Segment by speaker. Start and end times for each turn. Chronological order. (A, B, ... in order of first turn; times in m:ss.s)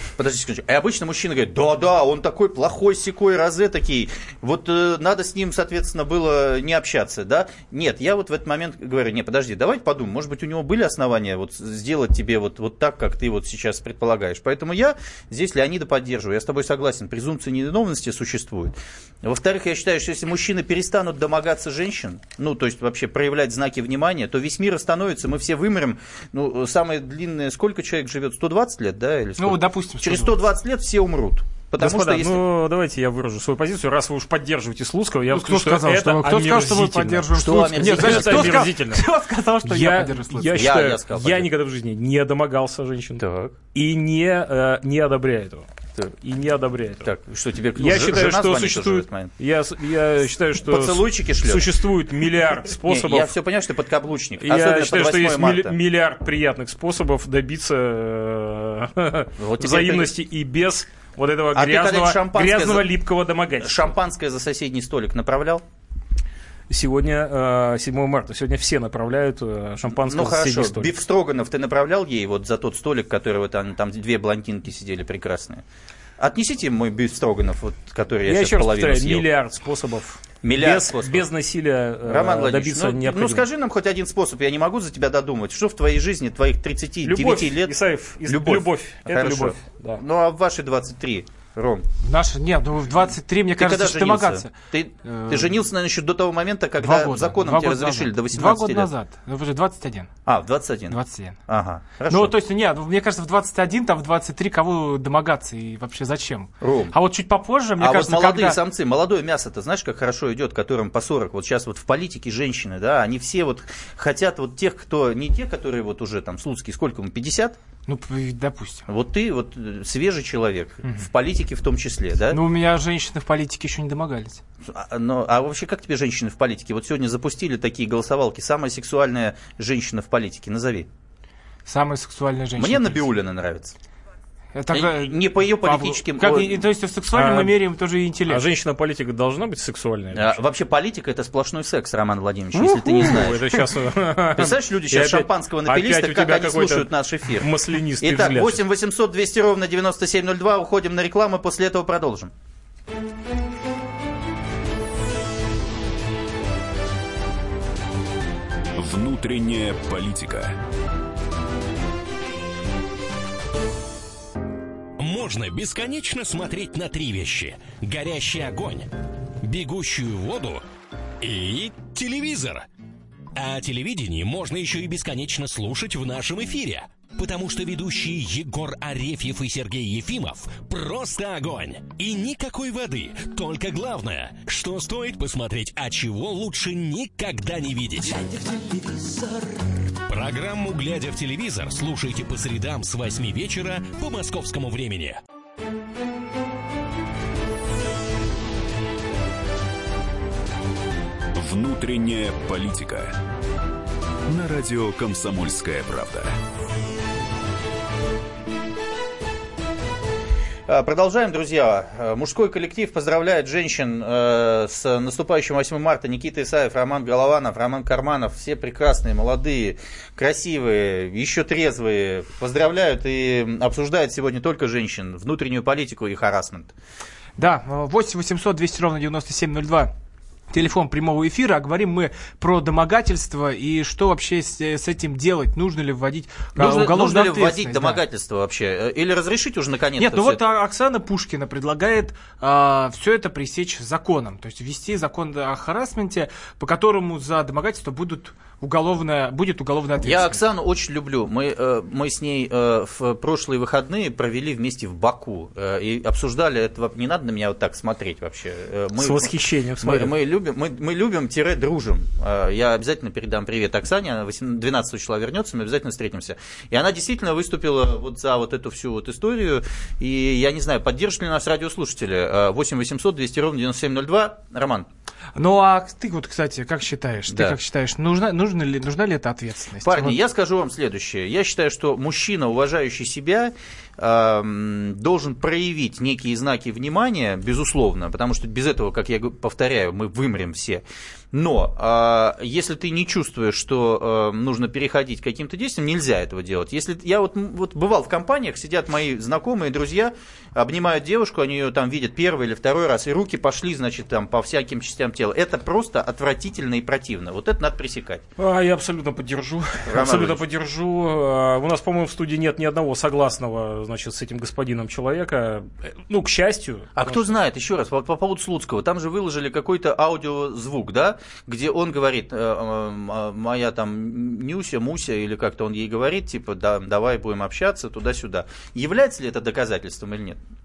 0:00.2-0:32.4 A
0:29.4-0:30.4 B
0:31.8-0:39.1 C
0:35.3-0:40.7 B
0:37.3-0:38.7 A
0:39.6-0:43.2 C
0:40.5-0:41.5 A
0:43.2-0:43.6 A
0:43.7-0:45.7 C
0:46.2-0:47.1 C
0:47.0-0:49.3 A
0:47.8-0:53.3 C
0:50.6-0:51.7 A
0:52.8-0:55.8 A
0:54.4-1:03.9 C
0:59.4-1:00.1 A
1:01.5-1:02.9 A
1:03.6-1:05.6 A
1:06.7-1:10.9 C
1:09.9-1:15.6 A
1:16.2-1:19.2 A
1:18.3-1:23.4 C
1:20.4-1:21.2 A
1:22.0-1:31.8 A
1:27.0-1:30.0 C
1:32.0-1:34.5 B
1:33.6-1:38.9 A
1:35.0-1:35.5 B
1:36.8-1:40.1 B
1:40.2-1:42.3 A
1:40.9-1:41.4 B
1:42.1-1:48.6 B
1:46.6-1:47.0 A
1:47.8-1:57.6 A
1:57.9-1:58.8 B
1:58.9-2:02.4 A
2:02.3-2:04.4 B
2:04.6-2:10.9 A
2:11.6-2:13.1 B
2:12.6-2:13.7 A
2:14.5-2:18.4 B
2:14.7-2:16.6 A
2:17.1-2:17.5 C
2:18.3-2:20.4 C
2:20.1-2:23.6 A
2:22.5-2:28.6 C
2:24.3-2:32.3 A
2:38.8-2:40.6 D
2:45.0-2:48.9 E
2:49.4-2:50.6 E
2:51.2-2:52.6 E
2:53.3-3:08.5 E
3:10.1-3:15.2 E
3:21.3-3:23.1 D
3:24.3-3:26.3 D
3:30.7-3:46.7 A
3:47.4-3:49.9 B
3:50.5-3:58.0 B
3:56.6-4:00.4 A
4:00.0-4:10.4 B
4:10.0-4:34.9 A
4:19.0-4:20.1 C
4:35.4-4:40.2 B
4:37.3-4:37.6 A
4:39.8-5:08.2 A
5:08.4-5:17.2 C
5:09.8-5:10.4 A
5:17.0-5:30.4 A